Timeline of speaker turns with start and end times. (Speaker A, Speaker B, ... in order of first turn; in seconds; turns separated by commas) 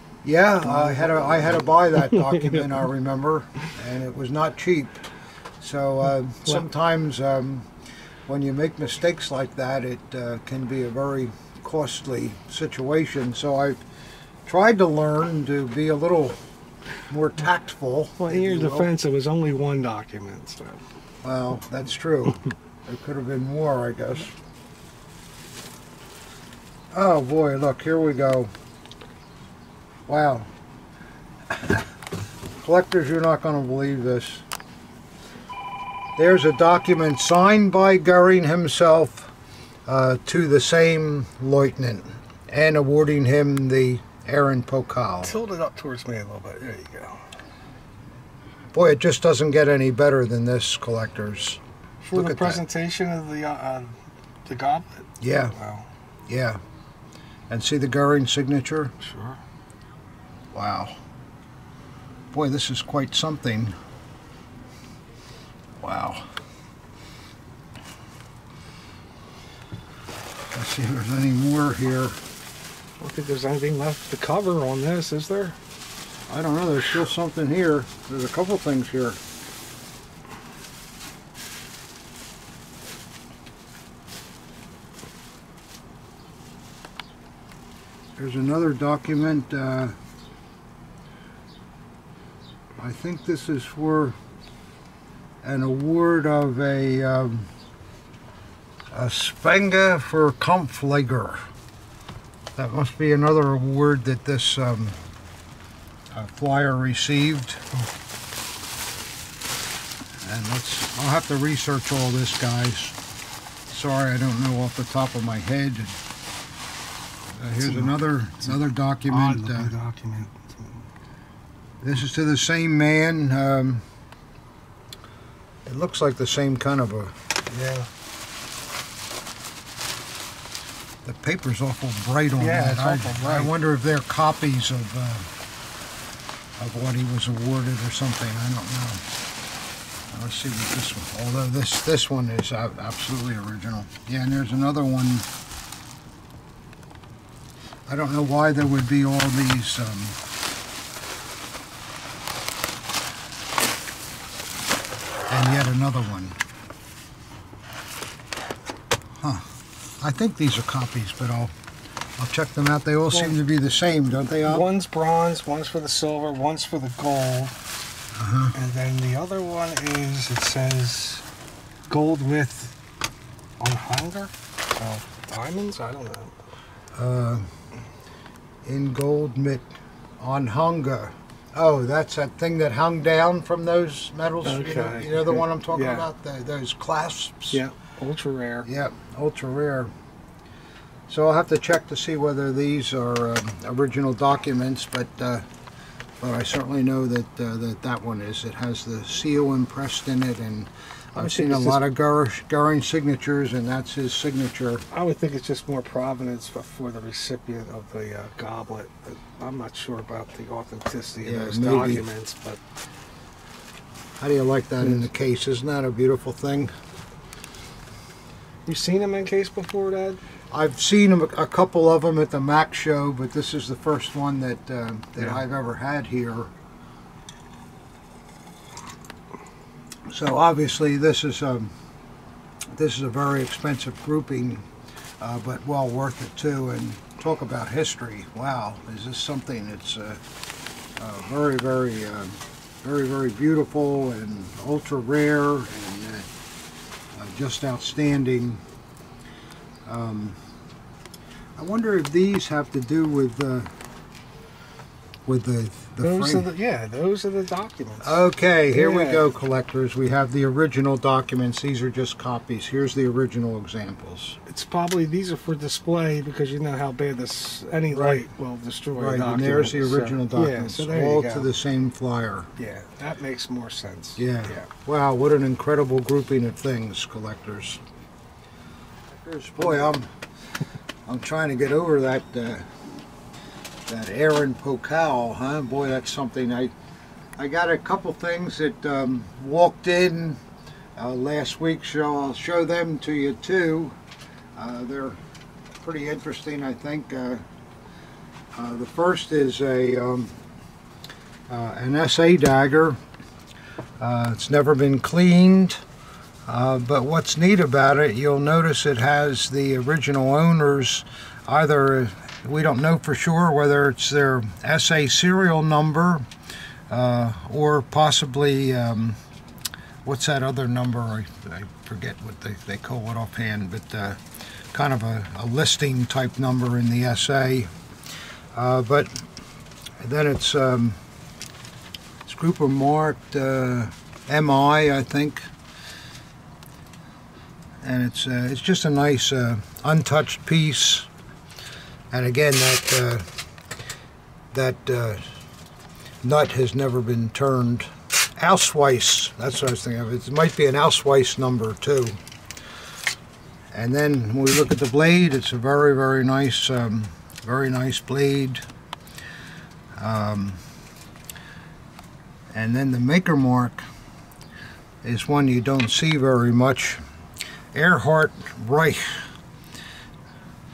Speaker A: 0.2-5.0, Speaker B: 0.6-2.7, Speaker A: 5.6-7.7, Speaker A: 8.3-13.8, Speaker A: 14.4-16.4, Speaker A: 17.1-18.9, Speaker B: 18.2-20.8, Speaker A: 21.2-24.3, Speaker A: 26.9-28.5, Speaker A: 30.1-30.5, Speaker A: 31.5-31.8, Speaker A: 32.6-34.4, Speaker A: 36.2-39.3, Speaker A: 39.9-45.4, Speaker B: 45.2-47.2, Speaker A: 48.7-51.6, Speaker B: 52.0-55.9, Speaker A: 52.1-52.6, Speaker A: 55.2-55.5, Speaker A: 56.3-56.6, Speaker A: 57.5-58.9, Speaker B: 59.0-59.4, Speaker A: 60.5-61.0, Speaker A: 62.3-63.8, Speaker A: 65.8-66.2, Speaker A: 70.5-72.2, Speaker B: 73.0-75.6, Speaker A: 76.3-79.2, Speaker A: 88.2-89.9, Speaker A: 92.8-94.2, Speaker A: 95.4-97.5, Speaker A: 98.9-101.5, Speaker A: 102.5-105.0, Speaker A: 106.1-107.7, Speaker A: 110.2-112.9, Speaker A: 113.7-116.0, Speaker A: 117.4-119.7, Speaker B: 117.6-120.8, Speaker A: 121.8-123.8, Speaker A: 125.7-127.2, Speaker B: 127.5-127.9, Speaker A: 131.0-135.3, Speaker B: 132.4-133.5, Speaker A: 136.6-139.0, Speaker A: 140.1-145.3, Speaker A: 147.9-150.2, Speaker A: 155.3-156.4, Speaker A: 159.2-159.5, Speaker A: 160.0-161.5, Speaker A: 162.2-164.7, Speaker B: 164.4-167.6, Speaker A: 168.2-168.5, Speaker B: 168.5-171.2, Speaker B: 171.9-172.8, Speaker B: 173.6-176.3, Speaker A: 176.9-177.5, Speaker A: 178.6-187.6, Speaker B: 184.4-186.1, Speaker B: 187.5-188.7, Speaker A: 188.6-189.9, Speaker A: 191.1-195.4, Speaker A: 196.2-204.8, Speaker B: 201.2-201.8, Speaker B: 204.9-212.6, Speaker A: 211.2-212.0, Speaker A: 214.2-216.7, Speaker B: 218.7-220.2, Speaker A: 220.5-226.5, Speaker A: 230.1-231.7, Speaker A: 232.7-234.7, Speaker A: 235.2-240.2, Speaker A: 241.0-246.3, Speaker A: 247.2-248.6, Speaker A: 249.8-250.4, Speaker A: 251.6-253.7, Speaker A: 255.2-256.5, Speaker B: 256.0-259.2, Speaker A: 258.0-264.4, Speaker B: 264.5-271.5, Speaker A: 267.9-268.2, Speaker A: 268.9-272.5, Speaker B: 272.6-274.6, Speaker A: 274.2-277.8, Speaker A: 279.1-280.1, Speaker A: 281.1-282.6, Speaker A: 283.9-286.7, Speaker A: 287.4-290.4, Speaker A: 291.0-293.9, Speaker A: 294.6-295.2, Speaker A: 295.8-297.4, Speaker A: 298.5-300.3, Speaker A: 301.5-303.0, Speaker A: 304.0-305.8, Speaker A: 306.5-316.3, Speaker A: 316.9-319.2, Speaker A: 320.0-324.2, Speaker A: 324.7-327.7, Speaker A: 328.5-329.1, Speaker A: 330.0-331.0, Speaker A: 332.2-335.5, Speaker A: 337.8-341.1, Speaker A: 342.1-343.2, Speaker A: 344.5-345.2, Speaker A: 346.2-352.2, Speaker A: 353.7-358.6, Speaker A: 360.0-360.6, Speaker A: 362.5-363.9, Speaker A: 365.0-367.0, Speaker A: 367.7-369.3